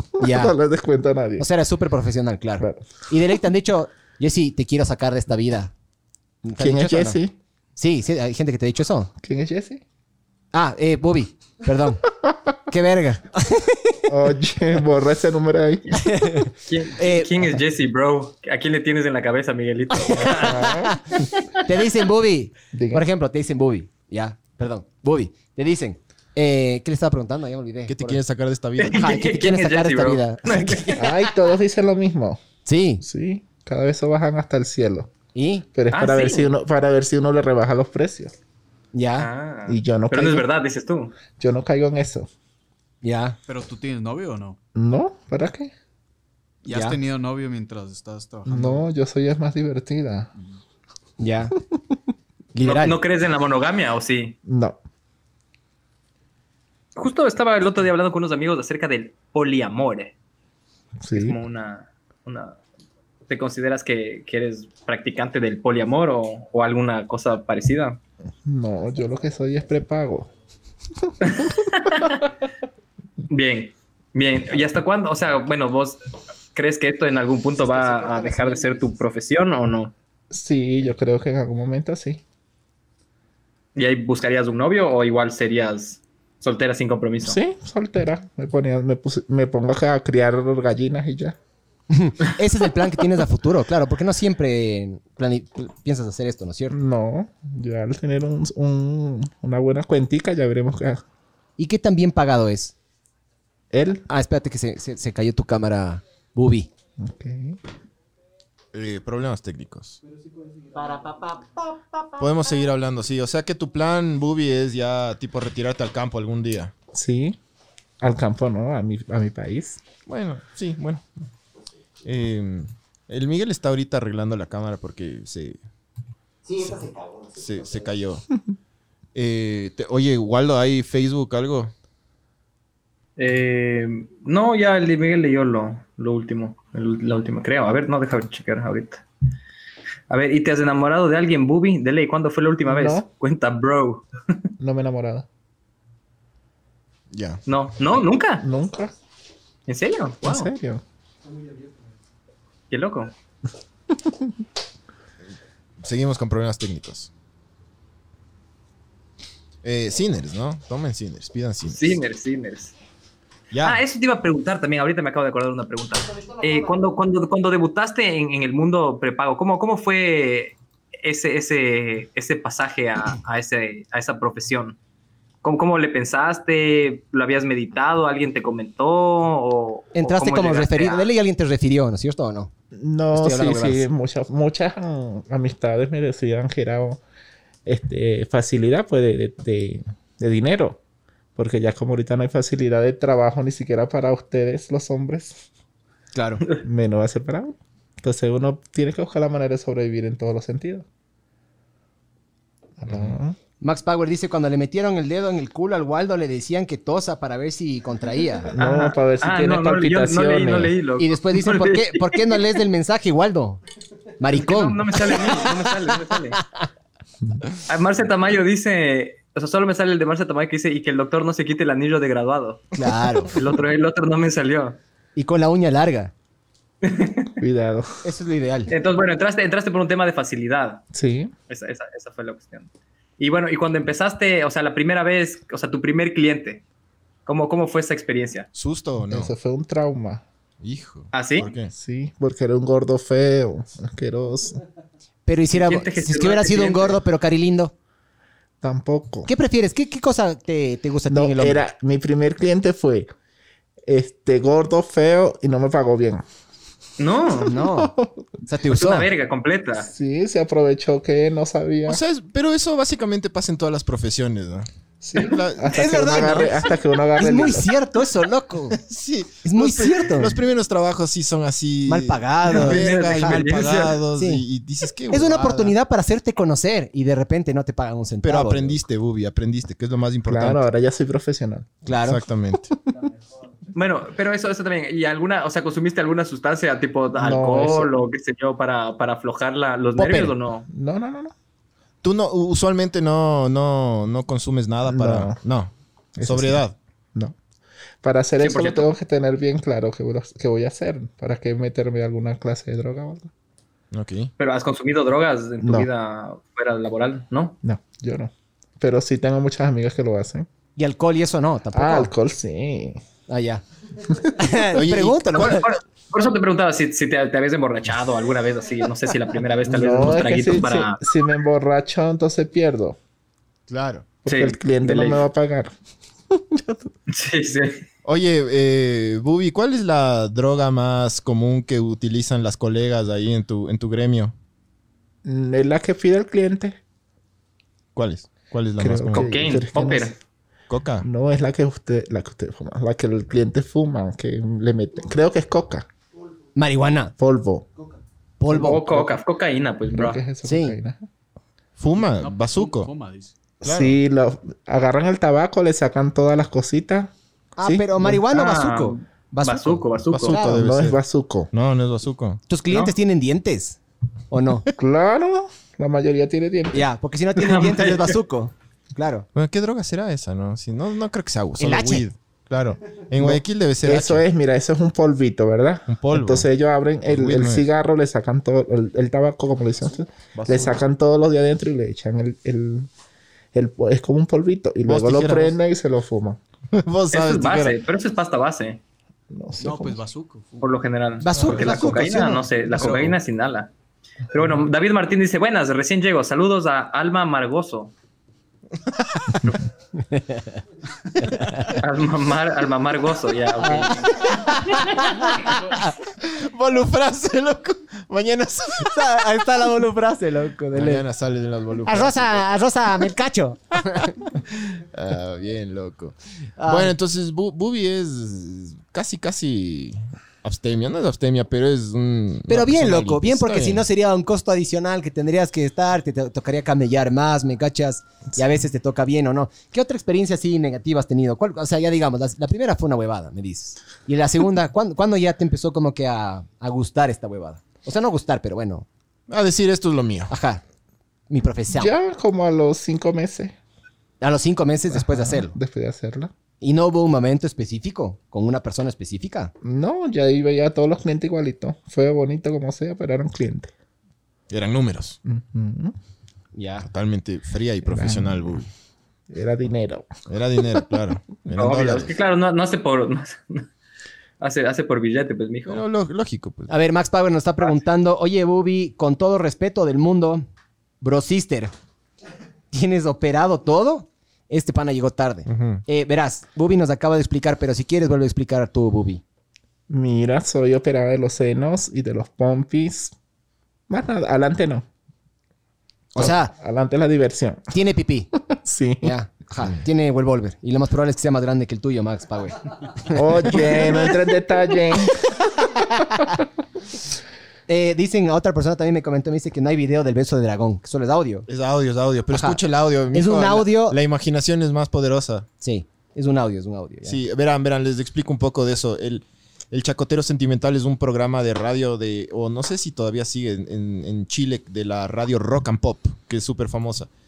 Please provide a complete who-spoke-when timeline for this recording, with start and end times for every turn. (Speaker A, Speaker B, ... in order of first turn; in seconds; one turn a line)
Speaker A: 0.2-1.5
Speaker B: 0.2-0.6
Speaker B: 1.4-5.7
Speaker A: 2.6-2.9
Speaker B: 6.4-7.2
Speaker A: 6.6-7.3
Speaker B: 7.8-9.1
Speaker A: 9.2-9.8
Speaker B: 10.5-12.1
Speaker B: 12.7-14.1
Speaker A: 14.1-16.0
Speaker B: 16.0-17.4
Speaker C: 16.7-20.8
Speaker B: 20.2-21.0
Speaker A: 20.3-21.0
Speaker B: 21.6-28.2
Speaker A: 22.7-23.1
Speaker D: 27.9-29.1
Speaker C: 28.8-31.0
Speaker B: 28.9-31.1
Speaker A: 31.0-32.4
Speaker B: 32.7-33.0
Speaker A: 33.0-35.1
Speaker B: 35.4-35.7
Speaker A: 35.8-38.3
Speaker C: 35.9-36.5
Speaker B: 38.9-39.3
Speaker C: 39.2-41.1
Speaker A: 39.7-40.5
Speaker A: 41.4-42.3
Speaker B: 43.0-43.4
Speaker E: 43.5-44.6
Speaker A: 44.8-45.7
Speaker E: 46.6-48.9
Speaker B: 46.7-47.0
Speaker A: 48.5-50.3
Speaker B: 51.2-51.5
Speaker B: 52.5-53.0
Speaker C: 52.6-54.4
Speaker A: 54.5-54.8
Speaker C: 57.0-60.1
Speaker A: 61.0-61.4
Speaker C: 61.1-62.6
Speaker C: 63.3-68.0
Speaker A: 68.5-70.3
Speaker C: 71.2-72.3
Speaker C: 73.3-76.0
Speaker C: 76.5-79.9
Speaker A: 80.3-82.2
Speaker C: 83.8-87.4
Speaker A: 87.2-91.4
Speaker B: 91.9-96.8
Speaker A: 96.7-101.0
Speaker B: 101.6-102.7
Speaker A: 103.7-104.1
Speaker B: 104.1-106.7
Speaker A: 107.0-107.6
Speaker D: 108.7-110.0
Speaker B: 110.7-112.1
Speaker D: 112.2-116.7
Speaker A: 116.9-117.4
Speaker A: 118.0-119.8
Speaker D: 120.1-121.2
Speaker D: 122.0-125.6
Speaker B: 126.5-127.3
Speaker D: 127.3-128.2
Speaker D: 129.2-131.7
Speaker C: 133.2-139.0
Speaker C: 140.1-144.4
Speaker A: 142.7-143.1
Speaker A: 144.6-145.3
Speaker D: 147.1-147.4
Speaker C: 147.5-148.5
Speaker A: 148.4-148.9
Speaker C: 149.7-150.5
Speaker A: 150.2-150.8
Speaker C: 152.7-153.1
Speaker D: 155.8-157.1
Speaker D: 159.6-162.0
Speaker C: 161.7-162.7
Speaker D: 163.5-163.8
Speaker C: 163.6-174.8
Speaker C: 175.4-181.1
Speaker B: 179.9-182.5
Speaker A: 182.7-187.0
Speaker B: 183.2-183.9
Speaker A: 187.7-190.8
Speaker A: 191.4-195.4
Speaker B: 196.1-196.4
Speaker A: 196.6-200.9
Speaker A: 202.8-203.4
Speaker B: 203.6-208.5
Speaker A: 208.5-210.7
Speaker C: 208.6-212.4
Speaker B: 211.0-213.6
Speaker B: 214.2-216.7
Speaker C: 214.3-216.4
Speaker C: 217.7-224.8
Speaker B: 222.8-223.3
Speaker B: 225.2-226.1
Speaker C: 226.8-227.4
Speaker A: 227.4-227.9
Speaker B: 228.0-228.7
Speaker C: 228.7-230.8
Speaker A: 230.9-231.3
Speaker C: 231.5-236.6
Speaker C: 237.3-238.5
Speaker D: 238.5-239.3
Speaker A: 239.1-240.2
Speaker D: 240.6-241.7
Speaker C: 241.1-241.5
Speaker A: 241.7-244.6
Speaker B: 245.3-247.7
Speaker C: 245.5-247.0
Speaker A: 248.6-249.3
Speaker B: 249.3-251.6
Speaker A: 251.1-253.1
Speaker A: 253.9-256.3
Speaker C: 257.0-257.5
Speaker B: 257.4-257.9
Speaker A: 257.7-258.2
Speaker B: 258.5-259.1
Speaker C: 258.7-259.9
Speaker A: 259.8-262.0
Speaker D: 261.9-264.7
Speaker A: 265.0-267.7
Speaker D: 265.2-266.4
Speaker B: 265.7-268.8
Speaker D: 268.7-275.8
Speaker B: 269.4-270.4
Speaker B: 271.9-274.4
Speaker C: 272.5-274.0
Speaker B: 275.1-278.8
Speaker D: 278.2-280.6
Speaker A: 280.2-281.7
Speaker B: 281.9-282.2
Speaker D: 282.0-282.7
Speaker C: 283.8-290.7
Speaker A: 287.1-287.9
Speaker B: 290.0-290.4
Speaker A: 290.7-291.3
Speaker D: 292.0-296.8
Speaker A: 294.9-295.4
Speaker A: 296.2-296.6
Speaker A: 298.0-303.3
Speaker C: 298.4-298.9
Speaker D: 303.9-304.3
Speaker C: 304.4-307.6
Speaker A: 305.6-305.9
Speaker A: 307.6-310.5
Speaker B: 310.8-312.1
Speaker A: 311.7-313.0
Speaker B: 313.3-313.6
Speaker B: 314.4-315.7
Speaker D: 314.7-315.6
Speaker C: 315.3-321.0
Speaker A: 319.7-323.0
Speaker D: 323.7-324.1
Speaker A: 324.2-325.7
Speaker C: 324.3-325.3
Speaker A: 326.3-326.8
Speaker C: 327.1-327.8
Speaker D: 328.1-334.3
Speaker A: 335.2-336.8
Speaker D: 337.9-339.4
Speaker A: 338.8-340.1
Speaker C: 339.1-340.1
Speaker D: 340.7-341.1
Speaker A: 341.0-345.9
Speaker B: 346.6-347.1
Speaker A: 347.2-347.7
Speaker B: 348.4-349.1
Speaker C: 348.5-350.2
Speaker A: 349.9-351.1
Speaker B: 350.4-350.8
Speaker D: 351.8-352.9
Speaker E: 352.0-353.3
Speaker A: 353.6-358.2
Speaker D: 353.6-354.0
Speaker B: 357.6-360.6
Speaker C: 358.3-360.4
Speaker D: 360.1-361.0
Speaker A: 360.3-361.5
Speaker D: 361.5-362.4
Speaker B: 362.5-363.8
Speaker B: 364.3-364.7
Speaker A: 364.8-366.9
Speaker B: 366.7-369.3
Speaker C: 367.4-368.2
Speaker D: 369.4-374.2
Speaker B: 371.6-372.1
Speaker A: 373.2-382.9
Speaker D: 375.9-376.5
Speaker D: 377.1-377.6
Speaker D: 380.4-380.8
Speaker A: 383.5-386.4
Speaker D: 384.9-385.5
Speaker D: 386.7-387.8
Speaker C: 387.1-388.8
Speaker A: 389.3-390.0
Speaker E: 389.6-390.7
Speaker C: 390.6-393.7
Speaker B: 391.2-392.5
Speaker D: 392.8-393.1
Speaker C: 394.3-397.9
Speaker D: 398.9-399.5
Speaker B: 400.1-400.5
Speaker B: 401.2-401.6
Speaker C: 401.7-404.3
Speaker B: 403.6-405.9
Speaker D: 404.8-405.6
Speaker D: 406.2-409.2
Speaker B: 408.9-411.1
Speaker D: 410.7-412.5
Speaker B: 411.9-414.2
Speaker D: 414.0-423.9
Speaker B: 416.6-416.9
Speaker B: 422.5-438.9
Speaker D: 439.3-440.3
Speaker B: 440.3-440.6
Speaker B: 441.3-441.9
Speaker A: 441.7-443.6
Speaker B: 444.2-445.6
Speaker A: 444.9-446.3
Speaker B: 446.6-449.5
Speaker A: 449.6-453.7
Speaker D: 454.5-455.2
Speaker A: 455.2-455.9
Speaker B: 456.5-456.9
Speaker D: 456.8-458.7
Speaker A: 457.9-458.6
Speaker A: 459.3-460.1
Speaker D: 460.3-462.1
Speaker C: 461.6-463.7
Speaker C: 464.4-465.8
Speaker D: 465.7-466.7
Speaker B: 466.7-470.5
Speaker B: 471.0-471.7
Speaker B: 472.7-479.2
Speaker D: 475.5-475.8
Speaker A: 479.9-483.1
Speaker A: 483.9-484.9
Speaker B: 486.1-486.5
Speaker A: 486.2-487.7
Speaker B: 487.7-488.3
Speaker A: 488.5-489.1
Speaker B: 489.0-494.1
Speaker A: 493.1-495.4
Speaker B: 495.7-496.4
Speaker B: 497.7-501.5
Speaker D: 501.5-505.5
Speaker B: 502.3-502.6
Speaker B: 503.1-504.0
Speaker B: 505.6-507.2
Speaker D: 507.0-517.1